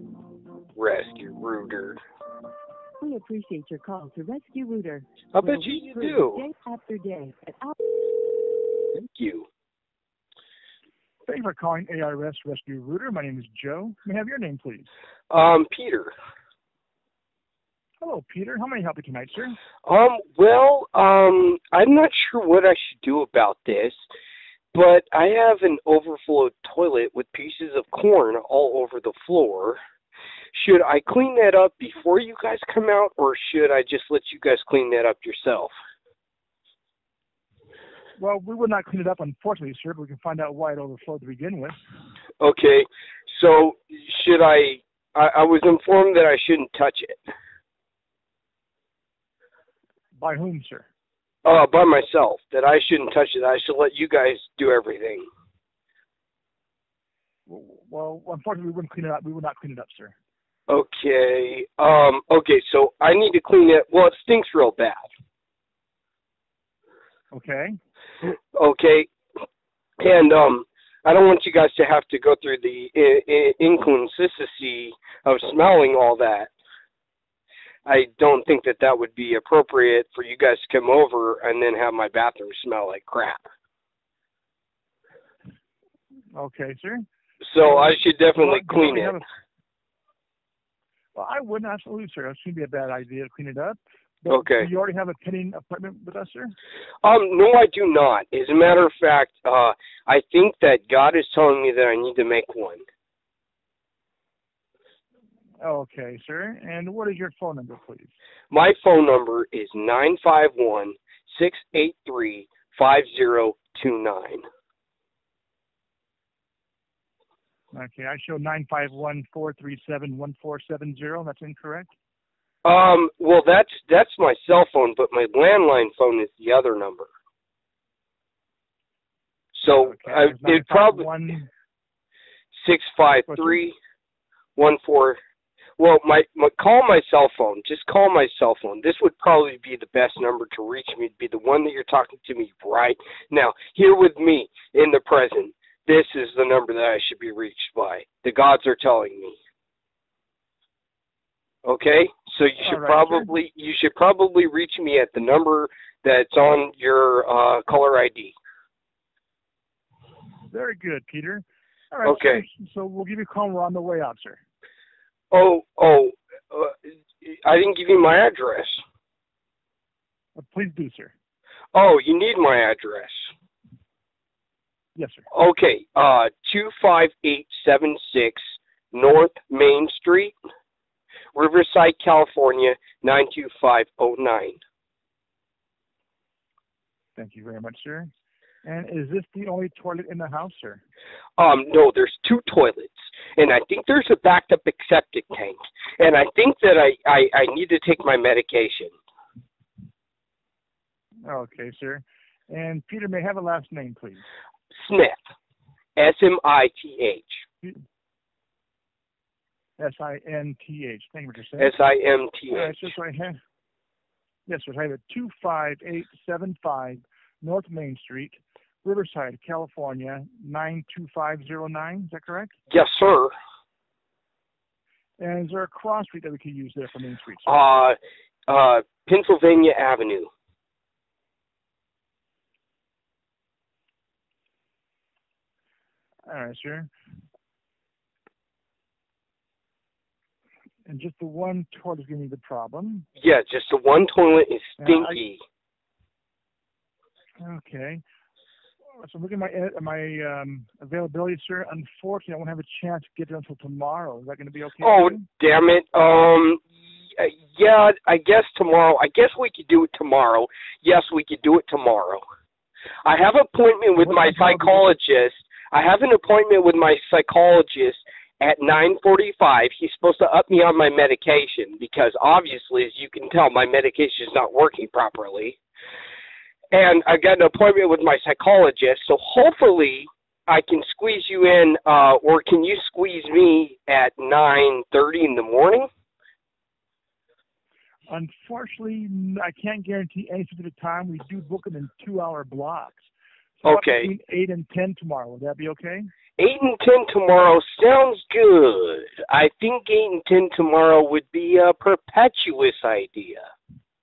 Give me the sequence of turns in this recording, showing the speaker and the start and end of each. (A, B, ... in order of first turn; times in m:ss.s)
0:00.8-0:02.0 A
0:03.0-0:08.1 B
0:05.3-0:06.4 A
0:08.9-0:09.5 A
0:11.3-0:14.9 C
0:15.3-0:16.1 A
0:18.0-0:19.6 C
0:19.8-0:24.0 A
0:24.7-0:29.8 A
0:30.5-0:35.7 A
0:38.2-0:41.8 C
0:42.4-0:47.2 A
0:50.2-0:50.9 C
0:51.4-0:55.3 A
0:57.5-1:00.2 C
1:00.7-1:05.1 A
1:07.3-1:07.7 C
1:08.2-1:09.1 A
1:10.0-1:16.5 A
1:17.9-1:23.4 A
1:26.4-1:27.0 C
1:27.4-1:29.2 A
1:27.6-1:29.2 C
1:31.2-1:36.5 C
1:34.3-1:34.7 A
1:37.0-1:42.8 A
1:45.6-1:48.1 C
1:48.5-1:54.4 A
1:57.7-2:01.9 C
2:02.6-2:07.1 A
2:09.5-2:11.2 A
2:09.7-2:11.5 C
2:12.5-2:13.8 A
2:13.3-2:13.6 C
2:14.6-2:15.2 A
2:15.8-2:29.4 A
2:31.6-2:38.4 A
2:32.6-2:33.3 C
2:40.5-2:44.4 C
2:42.0-2:42.4 A
2:45.3-2:48.8 A
2:50.4-2:51.1 C
2:51.7-2:53.3 A
2:55.0-2:55.3 C
2:55.3-3:00.3 A
3:01.4-3:04.6 A
3:07.2-3:08.1 C
3:08.6-3:10.8 C
3:11.4-3:18.9 A
3:21.3-3:24.2 C
3:24.8-3:25.2 A
3:26.0-3:27.4 A
3:29.8-3:31.8 C
3:31.6-3:32.9 A
3:32.5-3:33.4 C
3:34.5-3:42.6 C
3:42.7-3:43.3 A
3:45.2-3:47.6 C
3:47.5-3:48.0 A
3:48.5-3:50.3 A
3:56.3-3:56.9 C
4:00.9-4:03.1 C
4:03.2-4:05.4 A
4:04.8-4:05.2 C
4:07.4-4:08.0 C
4:09.0-4:15.3 C
4:14.8-4:16.6 A
4:17.2-4:22.2 A
4:23.0-4:35.6 A
4:24.0-4:24.9 C
4:36.7-4:45.9 A
4:48.1-4:53.1 C
4:53.6-4:56.1 C
4:53.6-4:54.1 A
4:56.4-5:03.4 A